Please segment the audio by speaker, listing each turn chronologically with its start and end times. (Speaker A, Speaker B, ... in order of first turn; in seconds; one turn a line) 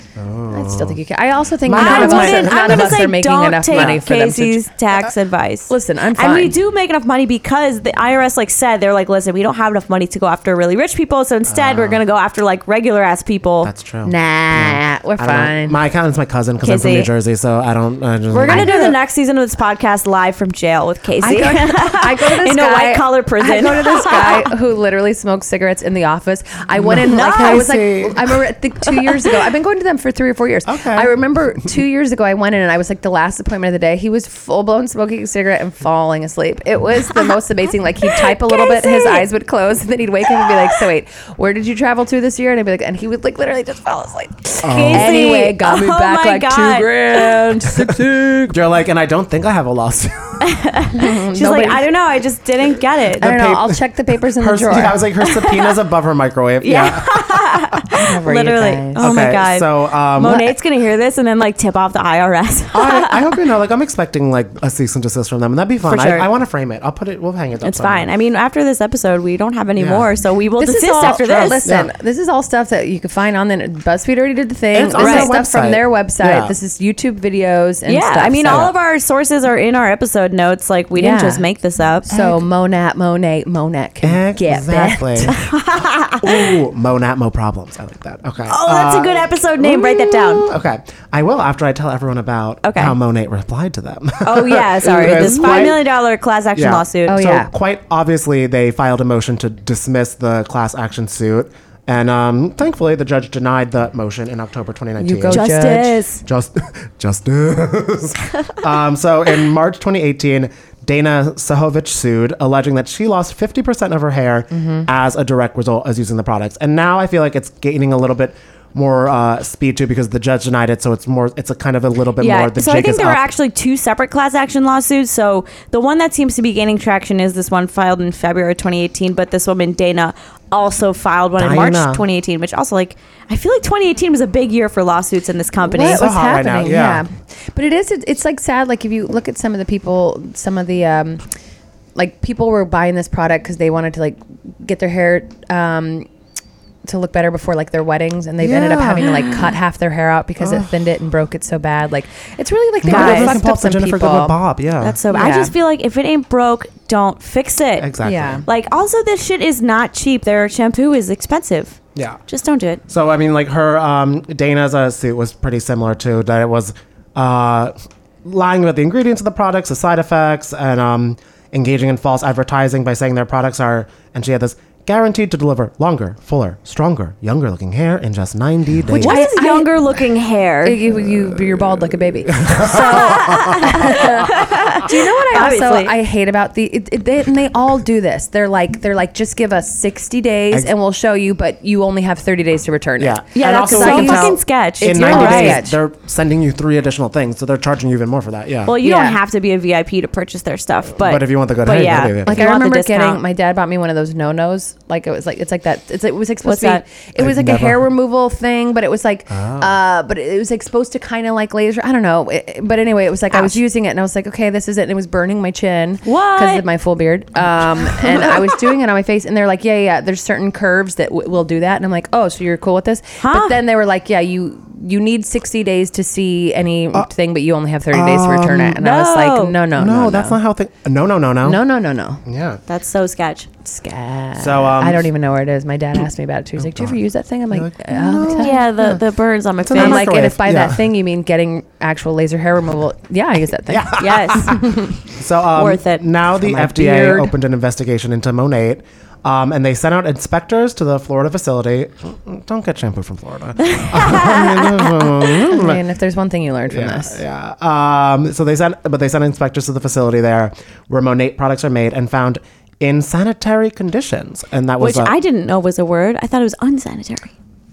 Speaker A: 0.2-1.0
Speaker B: 0.5-4.7
Speaker A: 1.6-3.0
Speaker C: 1.7-13.7
Speaker A: 3.7-4.0
Speaker B: 5.7-6.5
Speaker A: 11.5-12.0
Speaker A: 13.6-18.9
Speaker B: 14.1-15.8
Speaker C: 16.6-17.1
Speaker C: 18.3-24.5
Speaker B: 18.5-18.9
Speaker B: 21.2-48.5
Speaker A: 26.8-28.4
Speaker C: 27.1-27.6
Speaker A: 30.6-31.1
Speaker C: 38.1-39.3
Speaker A: 44.6-45.4
Speaker C: 44.7-47.4
Speaker A: 48.5-50.5
Speaker C: 50.4-53.3
Speaker B: 50.9-51.9
Speaker A: 53.2-57.8
Speaker B: 53.2-55.0
Speaker C: 55.2-55.7
Speaker C: 56.6-63.3
Speaker B: 57.9-59.2
Speaker A: 59.0-60.5
Speaker A: 62.7-68.1
Speaker C: 65.8-66.3
Speaker C: 67.6-71.7
Speaker A: 69.8-70.1
Speaker B: 70.6-78.7
Speaker A: 71.0-71.9
Speaker A: 74.7-76.5
Speaker C: 75.0-75.3
Speaker C: 77.9-82.1
Speaker A: 78.5-78.7
Speaker B: 81.0-81.5
Speaker B: 82.1-85.4
Speaker A: 82.1-82.4
Speaker A: 84.0-85.4
Speaker C: 85.4-86.2
Speaker A: 86.2-95.8
Speaker C: 88.5-90.5
Speaker C: 92.6-93.0
Speaker C: 94.2-97.2
Speaker B: 95.1-95.7
Speaker A: 96.5-105.7
Speaker B: 97.1-97.5
Speaker B: 105.0-106.0
Speaker C: 105.3-106.2
Speaker A: 106.2-123.3
Speaker B: 114.5-114.9
Speaker C: 122.2-136.1
Speaker A: 131.4-132.0
Speaker B: 135.6-141.2
Speaker A: 135.8-137.0
Speaker B: 141.9-146.1
Speaker B: 146.8-154.4
Speaker A: 148.4-149.3
Speaker A: 150.4-150.7
Speaker A: 152.8-155.0
Speaker C: 152.9-153.4
Speaker C: 154.8-157.9
Speaker B: 155.1-155.5
Speaker A: 157.8-158.4
Speaker B: 158.0-158.4
Speaker C: 158.4-162.8
Speaker A: 161.9-162.2
Speaker A: 162.9-179.3
Speaker B: 178.9-179.8
Speaker C: 179.0-180.8
Speaker B: 180.6-195.8
Speaker A: 181.0-184.0
Speaker C: 182.6-185.9
Speaker A: 193.0-198.7
Speaker C: 193.3-195.6
Speaker C: 198.7-203.2
Speaker B: 198.8-199.2
Speaker A: 201.0-202.4
Speaker B: 202.2-230.4
Speaker C: 206.4-206.8
Speaker A: 207.2-207.9
Speaker A: 209.3-209.8
Speaker C: 213.3-213.6
Speaker C: 216.0-216.6
Speaker C: 223.2-223.6
Speaker A: 227.9-228.8
Speaker C: 228.8-229.6
Speaker A: 229.7-231.6
Speaker B: 231.4-232.2
Speaker A: 232.2-232.6
Speaker C: 232.7-233.5
Speaker B: 233.6-238.6
Speaker A: 234.4-235.1
Speaker A: 236.6-237.0
Speaker A: 237.5-239.0
Speaker C: 238.4-240.2
Speaker A: 239.6-240.8
Speaker B: 239.7-245.0
Speaker A: 243.7-255.8
Speaker C: 244.0-244.6
Speaker C: 245.6-246.1
Speaker B: 246.4-247.3
Speaker C: 253.6-255.1
Speaker B: 255.5-257.2
Speaker A: 256.7-265.1
Speaker C: 264.8-267.3